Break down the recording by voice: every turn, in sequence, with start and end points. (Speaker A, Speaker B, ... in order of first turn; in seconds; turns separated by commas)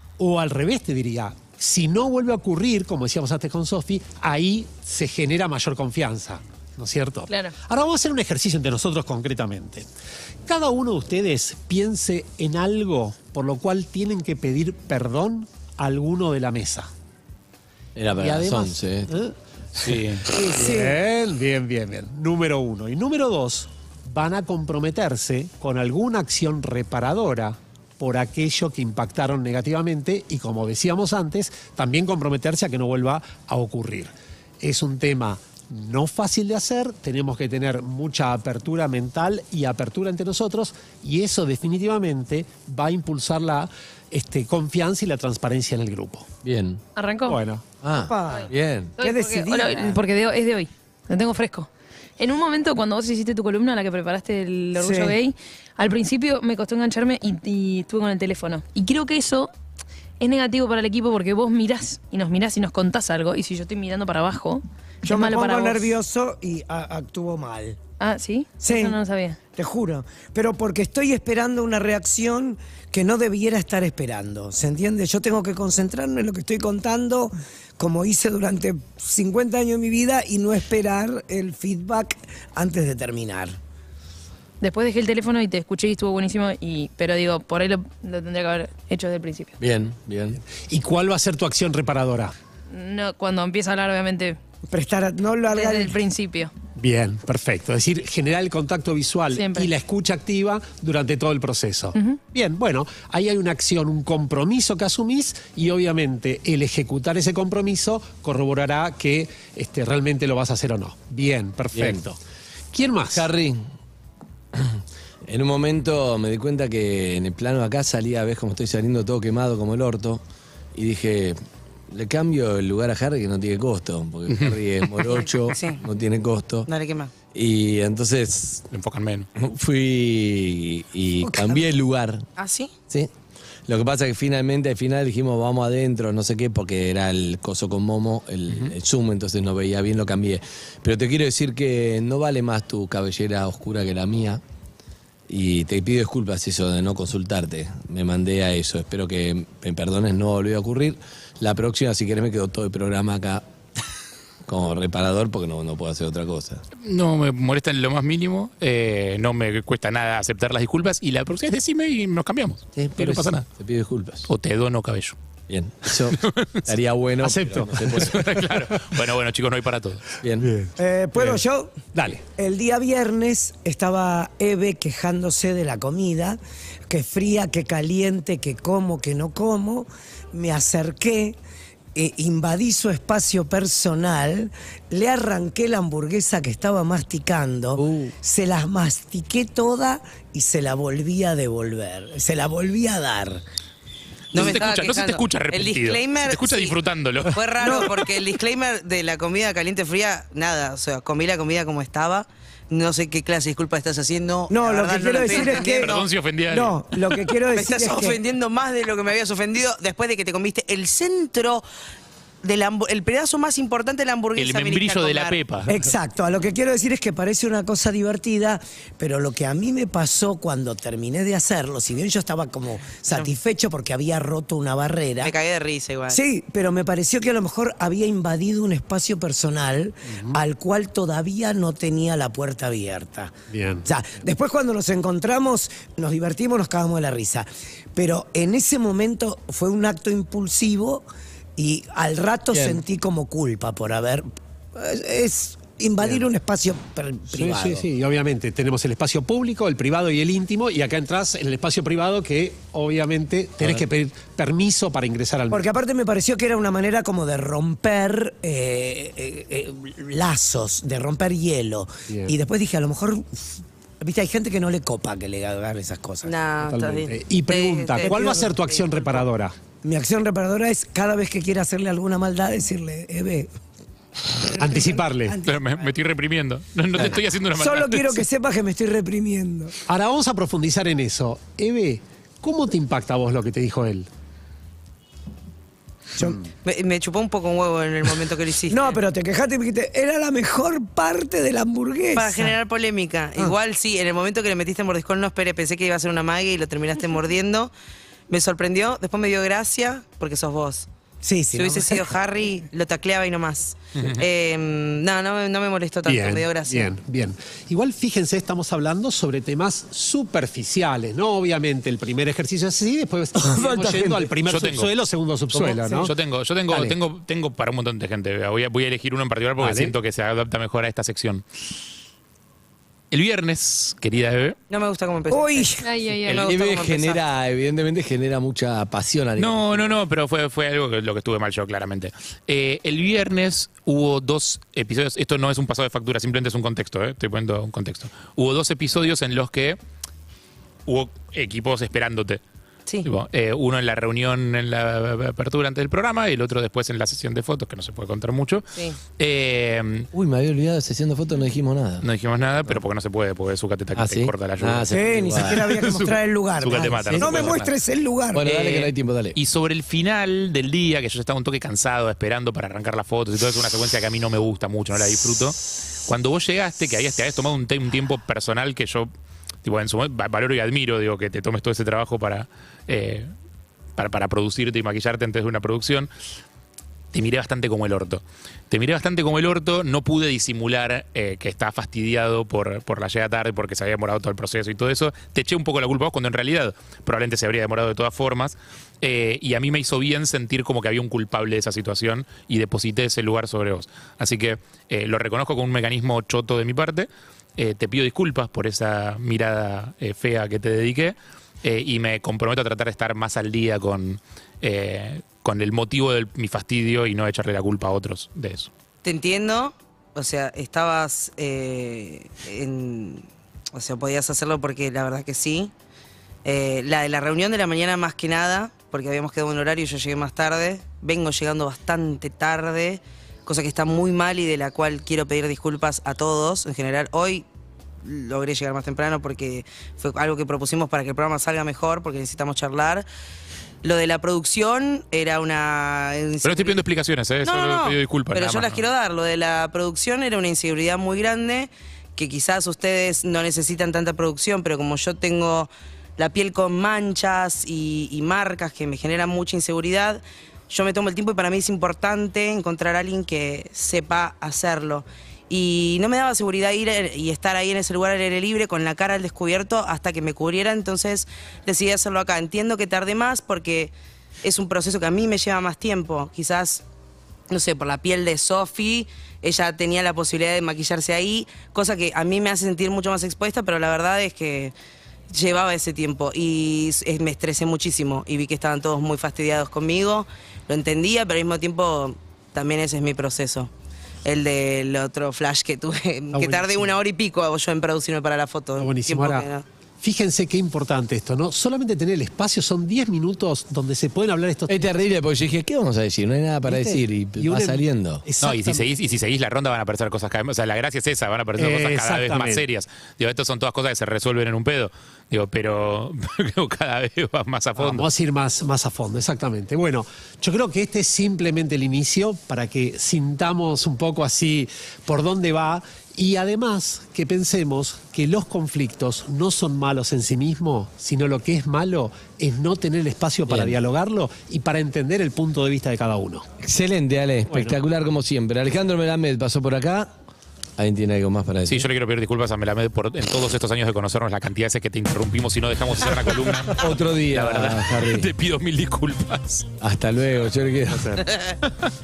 Speaker A: 0.2-9.8, Speaker B: 7.3-7.5, Speaker A: 10.5-16.9, Speaker C: 17.9-19.2, Speaker A: 18.2-19.3, Speaker D: 19.8-20.2, Speaker E: 20.4-21.0, Speaker A: 20.5-46.3, Speaker C: 46.4-46.8, Speaker B: 46.9-47.4, Speaker A: 47.2-47.6, Speaker C: 47.8-48.9, Speaker E: 48.0-50.0, Speaker B: 49.0-59.5, Speaker E: 54.8-55.1, Speaker B: 60.2-65.9, Speaker E: 65.0-67.8, Speaker B: 68.0-69.4, Speaker E: 68.6-69.0, Speaker E: 69.5-83.6, Speaker B: 84.6-89.6, Speaker C: 89.6-90.4, Speaker A: 90.5-92.3, Speaker B: 92.7-94.4, Speaker E: 94.7-95.9, Speaker B: 95.5-96.5, Speaker A: 96.8-112.2, Speaker B: 99.3-99.7, Speaker C: 111.7-112.0, Speaker A: 112.7-113.3, Speaker C: 113.1-113.6, Speaker C: 114.5-120.2, Speaker C: 120.7-121.4, Speaker C: 121.9-126.7, Speaker D: 124.3-124.5, Speaker F: 125.5-125.8, Speaker F: 126.7-127.1, Speaker C: 127.3-128.6, Speaker D: 128.7-129.3, Speaker C: 129.3-132.2, Speaker E: 131.2-131.6, Speaker F: 132.4-132.7, Speaker C: 133.7-144.4, Speaker D: 138.5-138.7, Speaker C: 145.3-153.4, Speaker C: 154.5-156.6, Speaker D: 156.8-163.4, Speaker C: 162.8-164.3, Speaker D: 164.2-165.2, Speaker C: 165.5-168.2, Speaker D: 166.1-166.5, Speaker A: 167.2-168.9, Speaker D: 168.1-170.1, Speaker C: 170.2-170.5, Speaker A: 170.4-172.2, Speaker E: 170.8-181.4, Speaker E: 181.9-193.4, Speaker C: 187.8-188.1, Speaker D: 194.3-197.4, Speaker F: 194.3-206.1, Speaker E: 197.6-198.0, Speaker E: 204.5-208.2, Speaker D: 205.3-206.8, Speaker F: 207.4-211.6, Speaker F: 212.4-215.4, Speaker D: 214.3-215.8, Speaker E: 215.7-225.3, Speaker F: 223.1-223.3, Speaker F: 225.2-226.2, Speaker E: 226.1-247.9, Speaker A: 230.1-230.4, Speaker A: 233.5-233.9, Speaker C: 242.5-242.8, Speaker A: 247.3-255.7, Speaker E: 255.5-266.9, Speaker A: 262.1-262.4, Speaker F: 266.2-269.3, Speaker A: 266.6-269.6, Speaker E: 267.9-268.5, Speaker E: 269.8-273.5, Speaker A: 274.5-275.4, Speaker E: 274.9-275.9, Speaker D: 275.4-278.2, Speaker E: 276.9-279.8, Speaker A: 279.9-284.1, Speaker E: 286.2-286.4, Speaker F: 286.6-289.0, Speaker E: 288.7-292.5, Speaker F: 292.1-297.7, Speaker F: 298.3-300.9, Speaker E: 301.2-302.1, Speaker F: 301.5-306.9, Speaker D: 303.9-304.2, Speaker A: 306.1-316.1, Speaker C: 313.5-314.3, Speaker D: 314.4-315.0, Speaker C: 315.5-315.8, Speaker E: 315.7-316.1, Speaker D: 316.0-321.4, Speaker A: 316.7-317.0, Speaker A: 319.6-319.9, Speaker D: 323.1-324.6, Speaker F: 324.7-327.2, Speaker E: 325.3-325.8, Speaker B: 325.8-326.4, Speaker C: 326.4-330.0, Speaker D: 329.4-339.8, Speaker D: 340.9-342.4, Speaker D: 343.0-350.1, Speaker F: 348.7-349.0, Speaker C: 350.1-352.1, Speaker D: 352.0-357.7, Speaker C: 353.9-355.7, Speaker E: 354.9-358.4, Speaker C: 356.9-357.6, Speaker C: 358.3-359.4, Speaker D: 358.4-369.1, Speaker D: 369.6-373.3, Speaker D: 373.9-376.1, Speaker D: 377.1-408.7, Speaker F: 409.0-415.7, Speaker F: 416.4-427.4, Speaker F: 428.0-433.1, Speaker F: 433.8-436.8, Speaker D: 436.4-438.9, Speaker F: 437.4-466.8, Speaker F: 467.5-474.7, Speaker F: 475.3-483.7, Speaker F: 484.2-489.6, Speaker A: 486.3-486.9, Speaker A: 488.8-489.5, Speaker A: 490.0-494.9, Speaker C: 494.7-498.2, Speaker A: 496.7-498.9, Speaker D: 498.4-508.1, Speaker A: 501.6-502.6, Speaker A: 507.8-526.5, Speaker C: 523.5-523.8, Speaker C: 526.6-530.1, Speaker A: 527.5-527.8, Speaker C: 530.8-531.9, Speaker D: 531.7-539.6, Speaker C: 536.8-538.3, Speaker C: 539.8-541.2